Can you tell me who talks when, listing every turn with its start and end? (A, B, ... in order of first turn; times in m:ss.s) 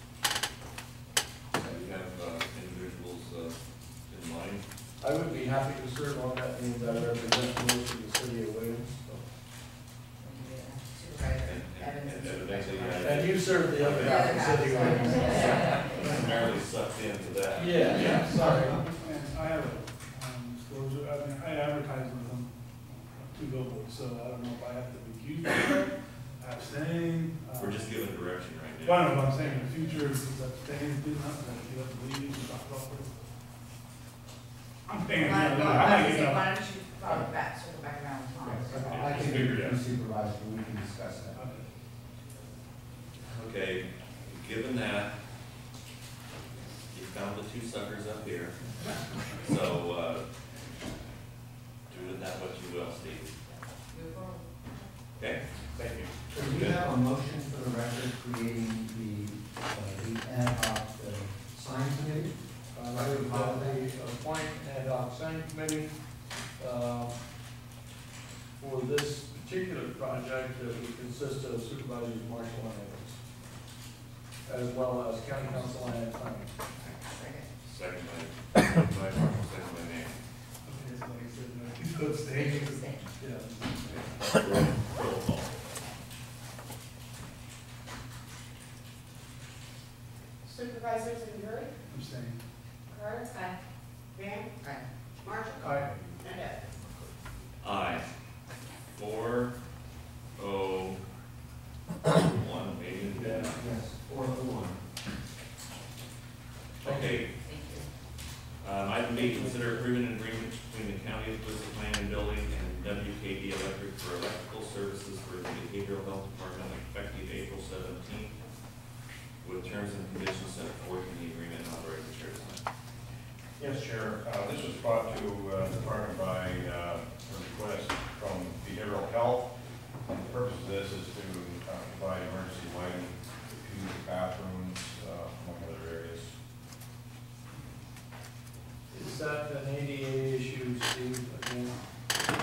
0:01.5-0:03.6 A
0:04.1-0:04.6 A
0:05.0-0:09.2 B
0:10.2-0:16.1 C
0:11.3-0:14.6 A
0:12.9-0:16.0 B
0:15.6-0:18.3 A
0:17.5-0:18.8 B
0:18.7-0:28.0 D
0:27.6-0:29.2 A
0:28.8-0:33.2 D
0:34.9-0:36.6 D
0:35.2-0:39.4 C
0:38.4-0:41.5 E
0:38.7-0:39.0 D
0:38.9-0:39.8 A
0:41.4-0:41.6 D
0:43.3-0:45.2 A
0:46.9-0:48.6 A
0:49.4-0:50.3 A
0:51.9-0:53.4 A
0:53.9-0:54.5 C
0:55.2-0:56.8 A
0:56.3-1:02.3 E
1:02.7-1:05.9 B
1:02.9-1:03.8 E
1:06.6-1:07.2 B
1:08.6-1:13.2 B
1:14.5-1:16.5 B
1:16.7-1:17.0 A
1:17.1-1:17.5 C
1:17.6-1:20.2 A
1:20.6-1:24.2 D
1:22.3-1:23.1 C
1:24.4-1:25.6 A
1:30.4-1:31.7 F
1:31.9-1:32.4 D
1:32.9-1:33.5 F
1:34.1-1:34.6 F
1:35.2-1:36.7 F
1:37.6-1:38.0 A
1:39.0-1:39.5 A
1:40.4-1:41.0 A
1:42.0-1:43.7 A
1:43.1-1:43.6 B
1:43.5-1:44.8 E
1:46.8-1:47.3 A
1:46.8-1:47.2 B
1:47.4-1:47.9 C
1:48.6-1:58.4 A
1:49.2-1:49.9 B
1:59.4-2:02.6 A
2:03.6-2:09.5 G
2:10.1-2:16.4 G
2:18.9-2:21.8 B